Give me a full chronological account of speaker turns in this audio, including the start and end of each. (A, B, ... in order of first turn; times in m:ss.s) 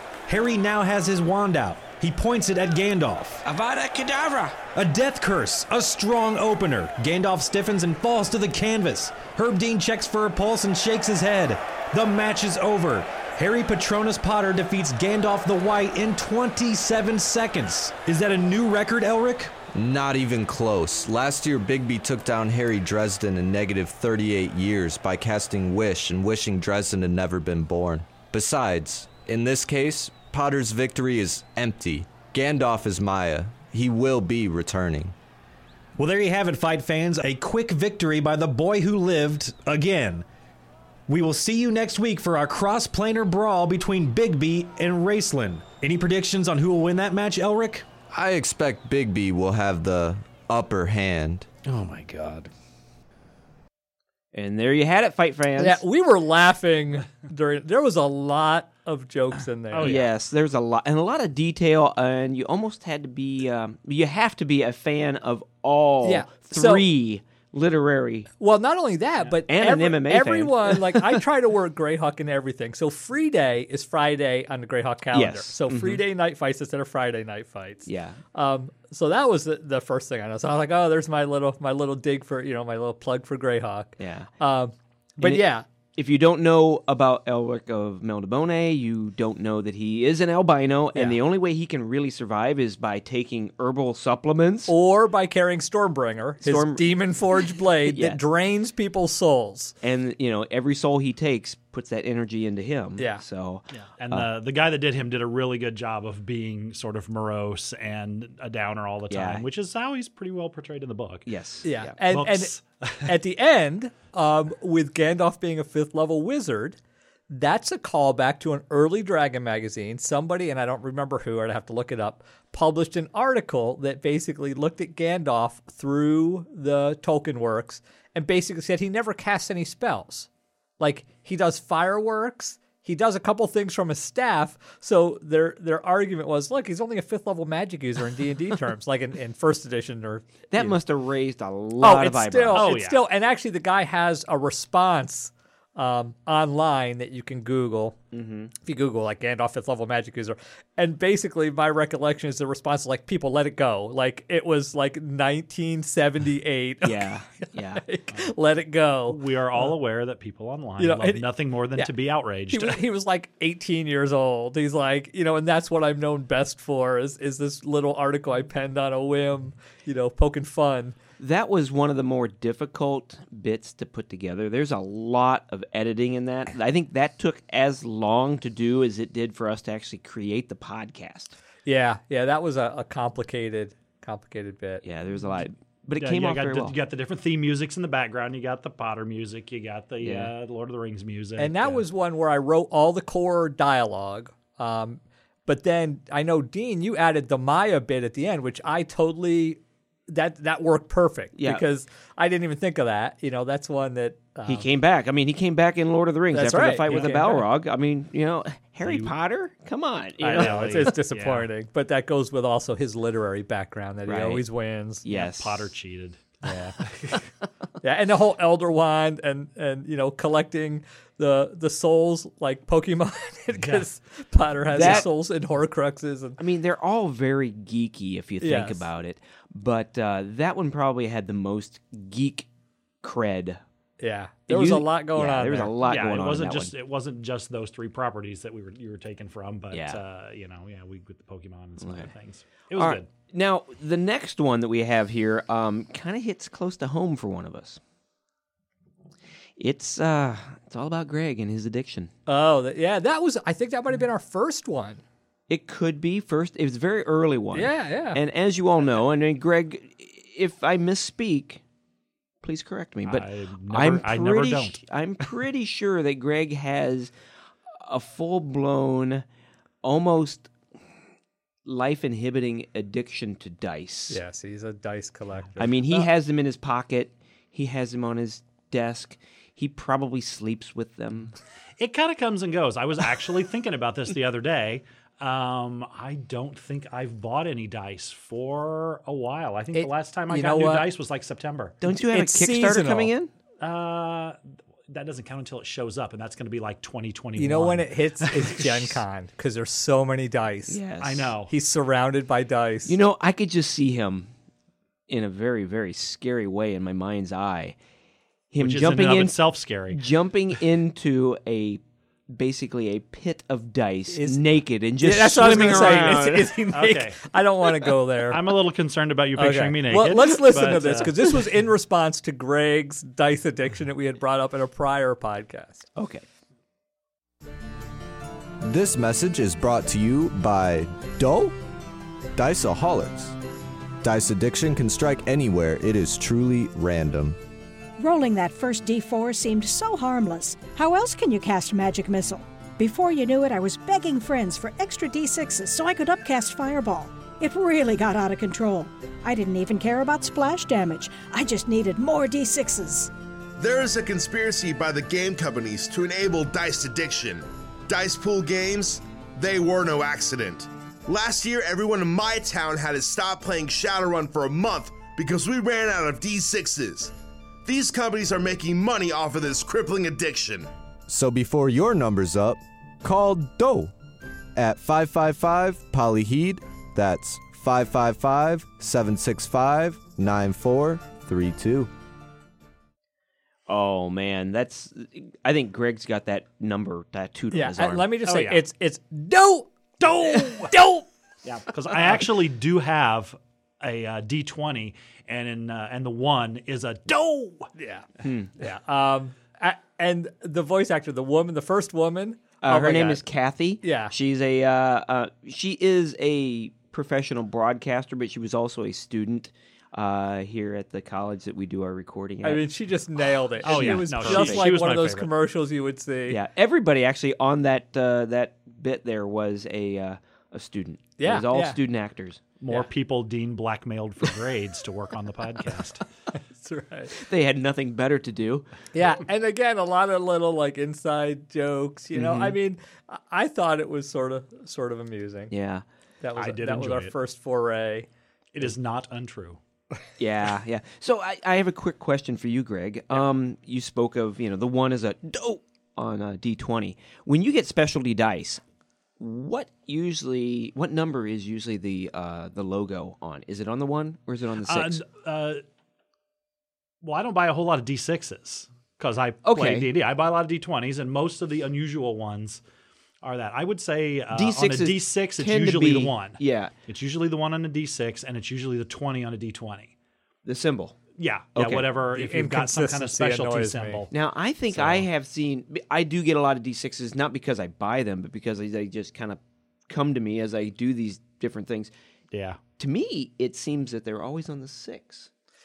0:00.3-0:03.4 A
0:03.4-0:04.6 B
0:04.7-0:19.6 A
0:19.7-0:35.1 C
0:36.0-0:40.2 A
0:41.1-0:47.8 A
0:48.1-0:51.5 C
0:51.6-0:52.5 A
0:54.3-0:55.8 B
0:55.6-1:00.0 D
0:59.7-1:00.1 E
0:59.8-1:08.3 B
1:06.0-1:06.8 D
1:08.4-1:25.6 D
1:09.5-1:11.2 B
1:15.1-1:16.0 B
1:17.8-1:18.2 B
1:24.0-1:24.3 B
1:25.2-1:34.7 B
1:30.9-1:31.2 D
1:34.7-1:39.7 D
1:36.4-1:37.0 B
1:37.9-1:38.2 B
1:39.8-1:44.3 B
1:43.0-1:43.2 D
1:44.0-1:51.3 E
1:49.1-1:49.4 B
1:51.2-1:52.0 B
1:51.6-1:56.8 D
1:52.0-1:53.1 E
1:57.3-2:10.3 D
2:10.8-2:20.8 D
2:20.5-2:22.8 B
2:21.8-2:28.0 D
2:22.5-2:23.0 E
2:28.1-2:28.5 B
2:28.6-2:39.7 D
2:36.8-2:37.9 B
2:39.1-2:42.8 E
2:40.8-2:41.9 D
2:42.5-2:51.0 D
2:51.2-3:01.3 B
3:01.6-3:04.8 D
3:04.8-3:06.8 B
3:06.0-3:11.8 E
3:10.0-3:10.3 B
3:11.4-3:24.6 D
3:21.3-3:21.6 B
3:24.4-3:30.9 B
3:26.3-3:27.4 D
3:26.8-3:27.4 E
3:28.8-3:29.1 E
3:30.2-3:35.0 D
3:30.3-3:31.5 E
3:34.0-3:34.4 B
3:35.0-3:35.7 B
3:35.1-3:37.2 E
3:37.8-3:46.4 D
3:43.5-3:43.9 E
3:44.7-3:45.0 E
3:44.7-3:45.0 B
3:46.4-3:52.5 B
3:48.4-3:48.8 D
3:53.0-3:53.6 B
3:54.0-3:55.7 D
3:54.5-3:56.7 B
3:55.8-4:03.1 E
3:59.7-4:00.0 B
4:01.8-4:02.1 B
4:02.7-4:07.8 B
4:09.6-4:12.1 B
4:12.3-4:15.0 D
4:15.5-4:21.6 B
4:17.5-4:18.2 D
4:22.4-4:27.1 B
4:23.0-4:24.8 E
4:27.8-4:29.2 B
4:29.8-4:30.5 B
4:31.6-4:34.2 B
4:34.1-4:36.1 D
4:35.6-4:41.3 B
4:41.8-4:51.8 E
4:49.7-4:50.9 D
4:51.8-4:53.3 B
4:52.1-4:53.1 D
4:53.6-4:59.0 E
4:57.4-5:00.8 D
5:00.7-5:01.3 B
5:01.0-5:01.5 E
5:01.5-5:02.9 D
5:02.8-5:04.3 B
5:05.1-5:07.8 B
5:08.5-5:16.6 B
5:08.6-5:10.0 E
5:14.1-5:14.4 D
5:15.0-5:18.5 D
5:16.7-5:17.2 E
5:18.3-5:21.3 E
5:19.4-5:25.9 D
5:26.0-5:26.2 B
5:28.6-5:31.6 C
5:32.3-5:33.4 C
5:34.0-5:37.4 C
5:38.0-5:53.1 F
5:53.6-6:07.1 G
6:07.6-6:10.7 G
6:11.1-6:13.9 C
6:14.5-6:21.9 C
6:23.7-6:28.1 B
6:27.5-6:31.1 D
6:28.2-6:28.6 E
6:30.0-6:30.7 E
6:31.4-6:37.7 E
6:37.8-6:38.0 D
6:38.2-6:38.5 B
6:38.6-6:43.2 D
6:42.6-6:52.7 B
6:43.8-6:44.1 D
6:52.4-6:56.4 D
6:53.6-6:54.7 B
6:53.6-6:55.3 E
6:56.3-7:02.5 B
7:01.2-7:01.8 D
7:02.6-7:06.0 E
7:06.5-7:07.1 D
7:07.2-7:08.7 B
7:08.9-7:15.5 D
7:12.1-7:12.6 B
7:15.5-7:15.8 B
7:16.2-7:18.1 D
7:16.4-7:17.1 E
7:18.5-7:19.6 E
7:20.2-7:28.6 B
7:29.2-7:35.0 B
7:34.6-7:35.6 E
7:37.0-7:42.6 E
7:39.4-7:39.9 B
7:43.2-7:49.9 E
7:44.3-7:46.7 B
7:50.4-7:51.0 B
7:51.1-7:54.1 E
7:51.5-7:51.9 B
7:52.1-7:54.0 D
7:54.1-8:01.9 B
7:54.7-7:55.0 E
8:02.3-8:02.6 E
8:02.8-8:05.3 B